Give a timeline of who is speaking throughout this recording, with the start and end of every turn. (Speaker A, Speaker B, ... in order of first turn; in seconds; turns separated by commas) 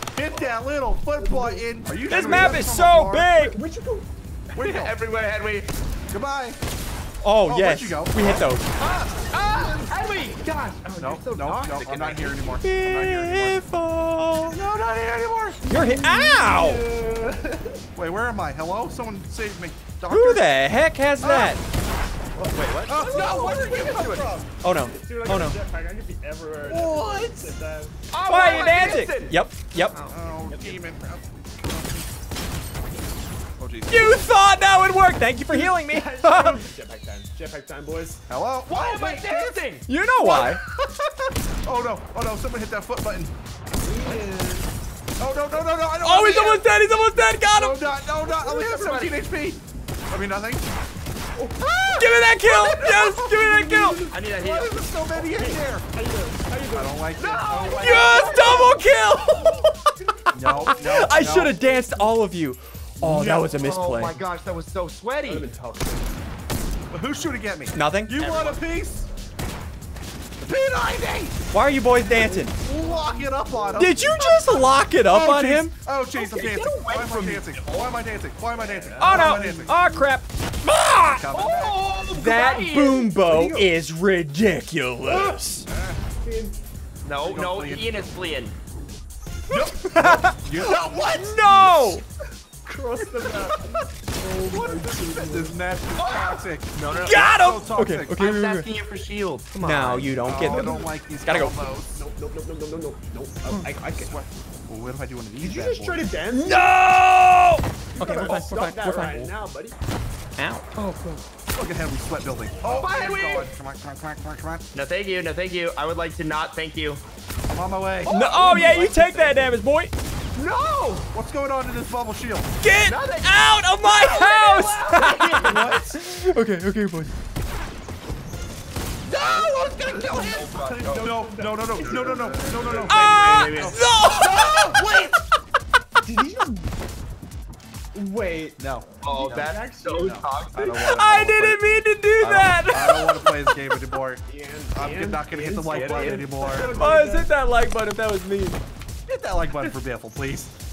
Speaker A: 0.1-3.3, Speaker B: 1.2-2.6, Speaker C: 2.1-3.6, Speaker B: 3.3-4.1, Speaker D: 4.5-5.7, Speaker A: 4.5-5.0, Speaker A: 6.1-6.6, Speaker C: 7.2-8.6, Speaker A: 7.5-8.5, Speaker D: 8.8-12.6, Speaker B: 9.5-9.9, Speaker A: 11.0-13.6, Speaker C: 12.6-14.6, Speaker A: 14.5-15.6, Speaker C: 15.7-16.9, Speaker B: 15.7-17.9, Speaker A: 18.0-20.5, Speaker C: 20.1-21.6, Speaker A: 21.2-21.6, Speaker B: 22.4-28.0, Speaker D: 22.4-24.3, Speaker A: 22.9-24.4, Speaker C: 24.6-25.6, Speaker A: 26.7-27.5, Speaker D: 28.1-30.2, Speaker C: 28.3-29.9, Speaker A: 29.9-32.1, Speaker B: 30.5-30.8, Speaker A: 33.6-34.2, Speaker C: 33.9-36.6, Speaker B: 35.5-38.2, Speaker A: 38.3-39.6, Speaker D: 38.7-39.9, Speaker C: 39.9-40.6, Speaker A: 40.2-41.1, Speaker A: 41.6-43.3, Speaker B: 43.8-44.7, Speaker A: 45.2-46.7, Speaker C: 46.0-47.9, Speaker A: 47.5-50.7, Speaker D: 48.2-49.3, Speaker B: 51.4-51.7, Speaker A: 51.6-55.9, Speaker C: 51.9-54.0, Speaker B: 53.4-54.1, Speaker D: 54.1-54.9, Speaker B: 55.1-57.1, Speaker A: 56.7-58.7, Speaker D: 57.2-58.7, Speaker C: 57.7-59.7, Speaker B: 57.9-58.8, Speaker B: 59.4-62.1, Speaker A: 60.3-61.6, Speaker C: 60.7-64.2, Speaker B: 63.0-63.3, Speaker D: 63.1-65.5, Speaker B: 65.3-66.2, Speaker A: 66.9-69.1, Speaker C: 67.7-68.2, Speaker D: 68.2-68.6, Speaker A: 70.4-71.4, Speaker C: 71.5-72.5, Speaker B: 72.0-74.2, Speaker A: 72.6-79.8, Speaker C: 73.8-75.7, Speaker D: 76.1-78.0, Speaker B: 78.6-80.0, Speaker C: 79.0-81.3, Speaker A: 81.1-81.8, Speaker D: 81.3-83.1, Speaker C: 82.1-85.7, Speaker B: 83.1-83.7, Speaker B: 85.1-85.4, Speaker A: 85.7-86.0, Speaker B: 86.1-86.6, Speaker D: 87.0-88.5, Speaker A: 87.2-88.1, Speaker A: 89.5-91.9, Speaker C: 89.5-92.0, Speaker B: 91.6-92.0, Speaker B: 92.7-95.6, Speaker A: 93.2-93.5, Speaker A: 94.5-98.2, Speaker D: 96.0-97.3, Speaker C: 97.0-98.7, Speaker D: 98.2-100.2, Speaker C: 99.6-101.6, Speaker A: 100.2-102.0, Speaker B: 100.3-100.8, Speaker B: 101.9-104.2, Speaker A: 103.9-106.1, Speaker B: 105.4-106.7, Speaker C: 106.3-109.3, Speaker B: 108.0-109.8, Speaker D: 108.2-109.2, Speaker C: 110.4-110.7, Speaker D: 110.7-111.2, Speaker A: 111.6-114.7, Speaker D: 112.7-113.5, Speaker D: 114.7-117.0, Speaker A: 117.5-118.2, Speaker C: 118.1-119.9, Speaker D: 118.1-118.6, Speaker B: 118.1-119.5, Speaker D: 120.3-121.1, Speaker A: 121.1-122.5, Speaker C: 122.6-127.1, Speaker D: 122.8-125.7, Speaker A: 125.3-126.0, Speaker D: 129.1-131.1, Speaker B: 129.3-133.8, Speaker A: 130.5-135.2, Speaker D: 132.7-133.8, Speaker C: 132.9-134.9, Speaker B: 136.0-136.8, Speaker B: 137.9-140.2, Speaker A: 138.6-138.9, Speaker D: 139.0-141.5, Speaker A: 140.0-141.6, Speaker C: 140.8-143.8, Speaker A: 142.2-146.8, Speaker B: 144.3-147.3, Speaker D: 145.7-146.4, Speaker C: 146.7-148.6, Speaker A: 149.1-150.5